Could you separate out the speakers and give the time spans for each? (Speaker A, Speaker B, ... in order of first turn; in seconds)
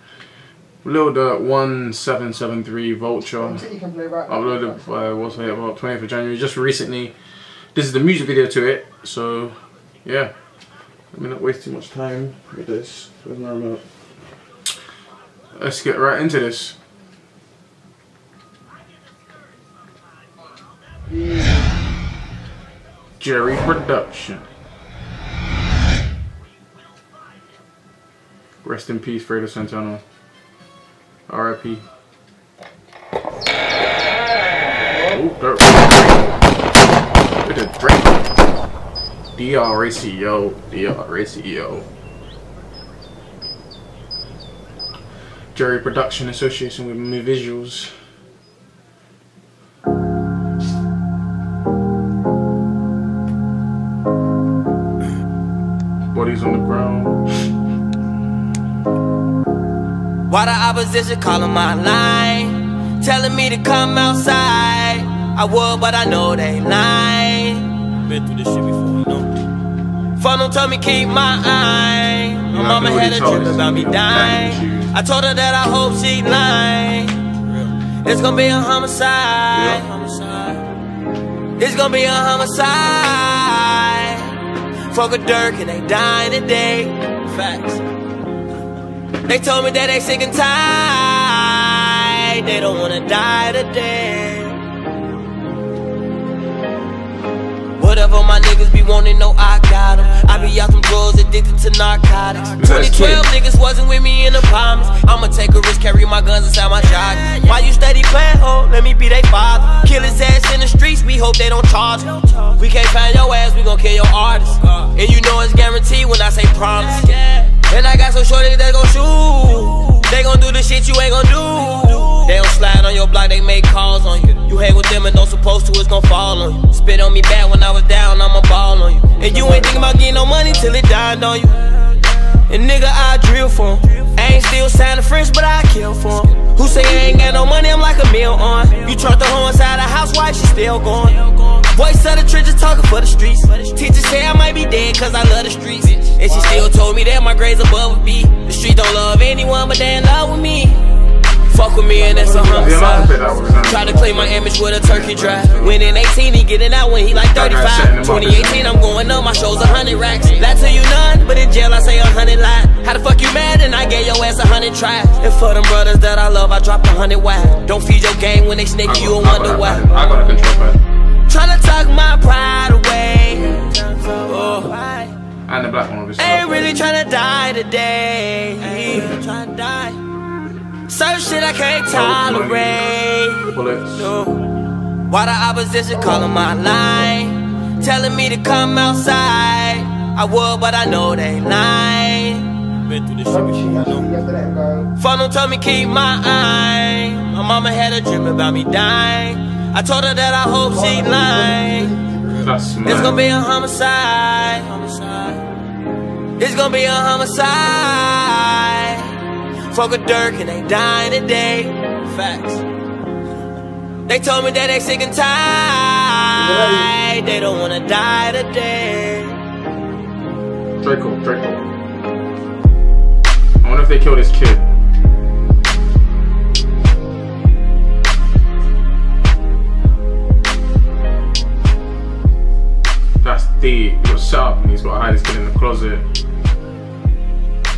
Speaker A: 0.8-3.7, 4.3-10.3, 11.1-13.9, 15.5-16.8, 23.2-24.4, 28.6-30.0, 31.3-31.8, 34.9-36.4, 37.4-38.3, 39.4-41.8, 45.5-48.1, 56.1-57.5, 72.5-74.9, 79.5-79.8, 102.5-103.2, 152.5-155.8, 157.1-158.8, 168.8-170.8, 175.5-176.8, 181.9-182.9, 183.5-184.1, 202.3-203.2, 220.8-221.6, 223.6-224.6, 233.2-236.1
Speaker B: 3.4-4.8, 21.1-21.7, 129.3-130.1, 136.7-137.6, 146.2-146.7, 151.9-154.0, 158.8-160.9, 185.9-188.1, 193.2-194.9, 200.7-202.5, 216.3-216.9
Speaker C: 60.3-69.3, 70.2-80.6, 81.6-87.8, 89.2-94.6, 97.8-150.9, 151.4-170.1, 171.3-175.2, 176.2-180.0, 180.9-184.4, 185.1-193.2, 195.0-201.9, 202.8-205.4, 206.4-212.6, 214.1-219.4